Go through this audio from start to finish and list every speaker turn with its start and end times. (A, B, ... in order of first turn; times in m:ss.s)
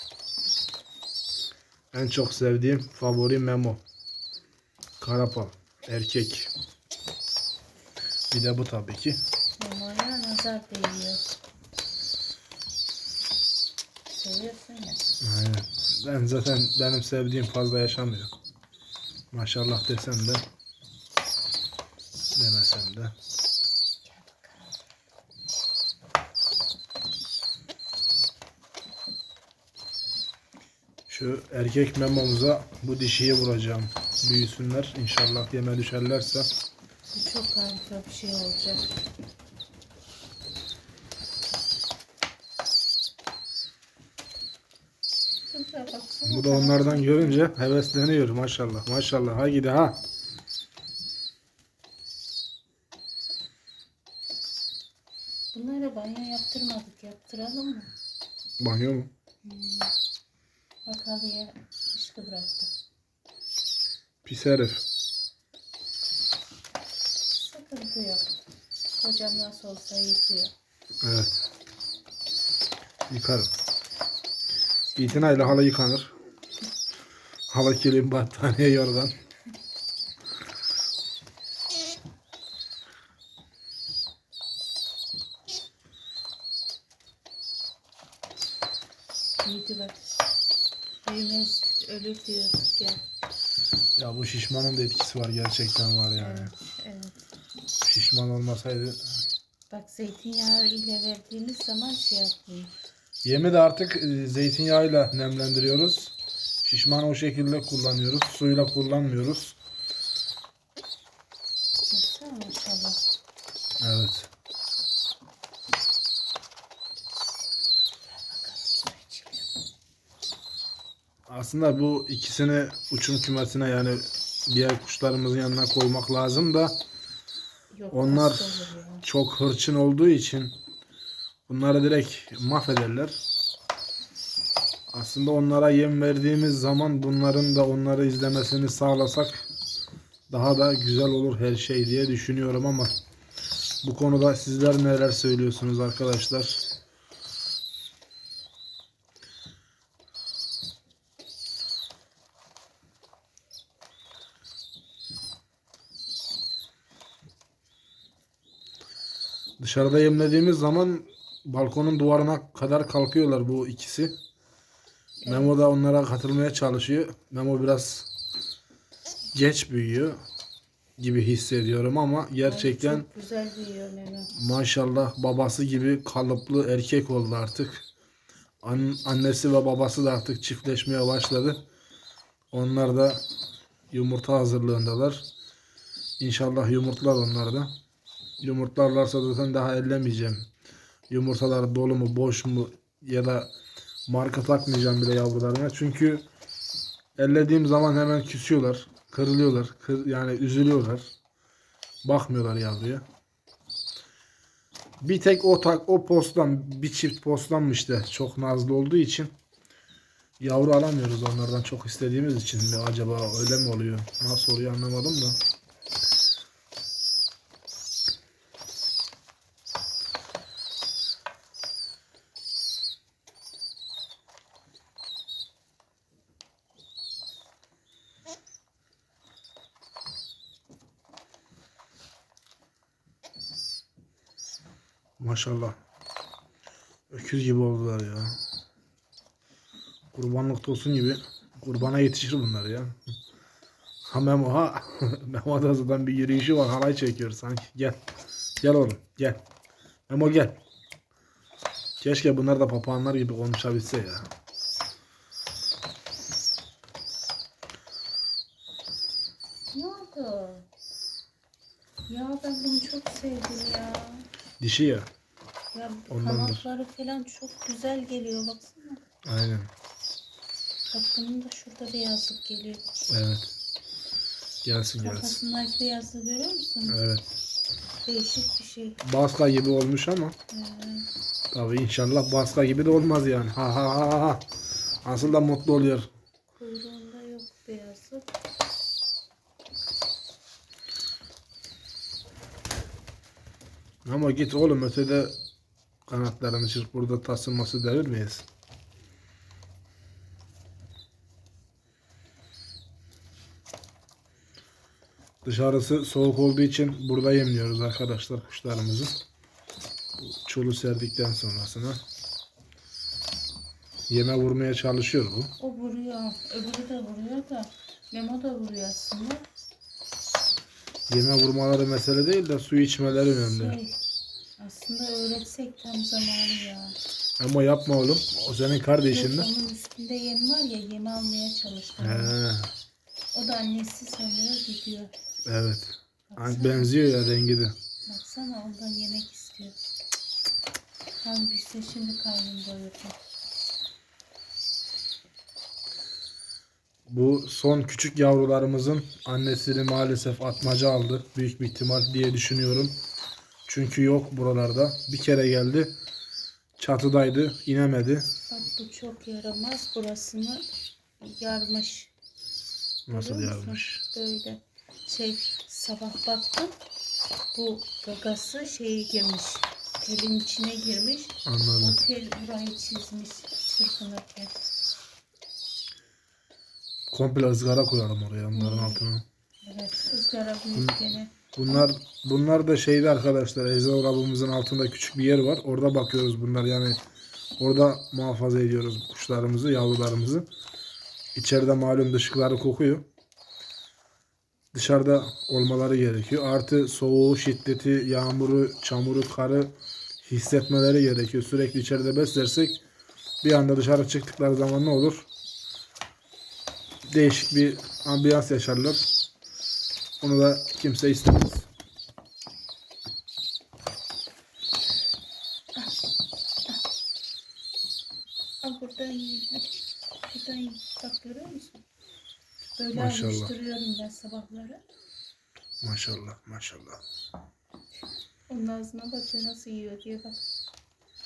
0:01.9-0:03.8 A
0:05.0-0:06.5 A
0:08.3-0:09.2 A
0:09.6-0:11.3 B
0:14.1-0:15.1 B
0:15.2-0:18.3 A
0:19.3-0:20.4 A
0:22.4-0:23.1 A
0:24.0-0:24.7 B
0:31.1-0:36.5 A
0:37.1-0:38.9 B
0:45.5-0:47.4 B
0:46.3-0:50.0 A
0:55.5-0:57.9 B
0:58.6-0:59.1 A
0:59.4-0:59.9 B
1:00.8-1:02.7 B
1:04.2-1:04.8 A
1:07.3-1:08.4 B
1:09.0-1:10.5 B
1:11.0-1:11.4 A
1:13.1-1:13.5 A
1:15.0-1:16.1 A
1:15.0-1:15.6 B
1:17.5-1:19.2 A
1:29.4-1:30.0 B
1:31.0-1:33.0 B
1:34.0-1:36.5 A
1:36.2-1:37.3 B
1:37.8-1:39.0 A
1:39.7-1:42.7 B
1:43.2-1:49.6 A
1:51.9-1:53.0 B
1:53.8-1:54.3 A
1:58.0-1:59.5 B
2:01.3-2:06.8 A
2:07.7-2:09.0 B
2:07.9-2:08.5 A
2:09.0-2:10.6 A
2:11.5-2:13.2 A
2:14.9-2:19.5 A
2:20.3-2:22.9 A
2:23.8-2:26.6 A
2:39.6-2:44.1 A
2:45.2-2:45.6 B
2:45.3-2:48.1 A
2:49.3-2:50.2 A
2:51.0-2:53.1 A
2:52.4-2:54.3 B
2:54.3-2:57.9 A
2:58.6-3:01.6 A
3:02.5-3:03.2 A
3:03.9-3:05.3 A
3:06.2-3:07.7 A
3:08.4-3:10.5 A
3:11.1-3:13.5 A
3:14.1-3:16.2 A
3:17.2-3:21.1 A
3:22.0-3:23.0 A
3:25.0-3:29.3 A
3:30.4-3:35.4 A
3:55.2-3:55.8 A
3:57.1-3:58.4 A
4:00.1-4:03.0 A
4:04.1-4:08.0 A
4:08.6-4:09.4 A
4:10.1-4:10.6 A
4:12.0-4:14.3 A
4:19.7-4:20.7 B
4:22.1-4:24.3 B
4:24.6-4:25.1 A
4:25.7-4:29.0 B
4:26.1-4:26.6 A
4:29.2-4:29.7 A
4:30.9-4:32.9 B
4:33.1-4:33.5 A
4:34.6-4:35.4 A
4:35.0-4:37.0 B
4:36.9-4:37.3 A
4:38.1-4:39.0 B
4:39.0-4:40.4 A
4:40.5-4:41.1 B
4:41.5-4:44.4 A
4:45.0-4:46.1 A
4:46.6-4:48.3 B
4:54.0-4:55.4 A
4:56.1-4:58.5 A
5:05.4-5:09.1 A
5:10.2-5:12.0 A
5:14.1-5:15.5 A
5:15.6-5:19.4 B
5:21.1-5:23.8 A
5:23.4-5:24.0 B
5:24.6-5:27.0 B
5:27.4-5:29.5 A
5:29.1-5:32.4 B
5:32.0-5:32.7 A
5:33.3-5:35.1 B
5:35.5-5:37.8 A
5:36.3-5:36.9 B
5:38.1-5:39.8 B
5:41.2-5:43.2 B
5:47.1-5:53.0 A
5:53.7-5:55.9 A
5:56.8-5:58.3 A
5:58.5-6:00.7 B
6:01.2-6:02.1 B
6:03.1-6:04.0 A
6:03.1-6:06.7 B
6:07.5-6:14.6 B
6:11.4-6:12.0 A
6:17.1-6:19.2 A
6:18.5-6:19.0 B
6:19.6-6:21.9 B
6:21.6-6:27.0 A
6:27.6-6:30.4 A
6:31.4-6:33.0 A
6:34.7-6:39.7 A
6:40.2-6:42.8 A
6:43.4-6:45.3 A
6:47.0-6:49.0 A
6:50.2-6:51.7 A
6:55.8-6:56.0 B
6:58.6-7:01.8 B
7:02.8-7:04.8 B
7:03.0-7:03.5 A
7:05.8-7:07.0 A
7:08.5-7:10.4 B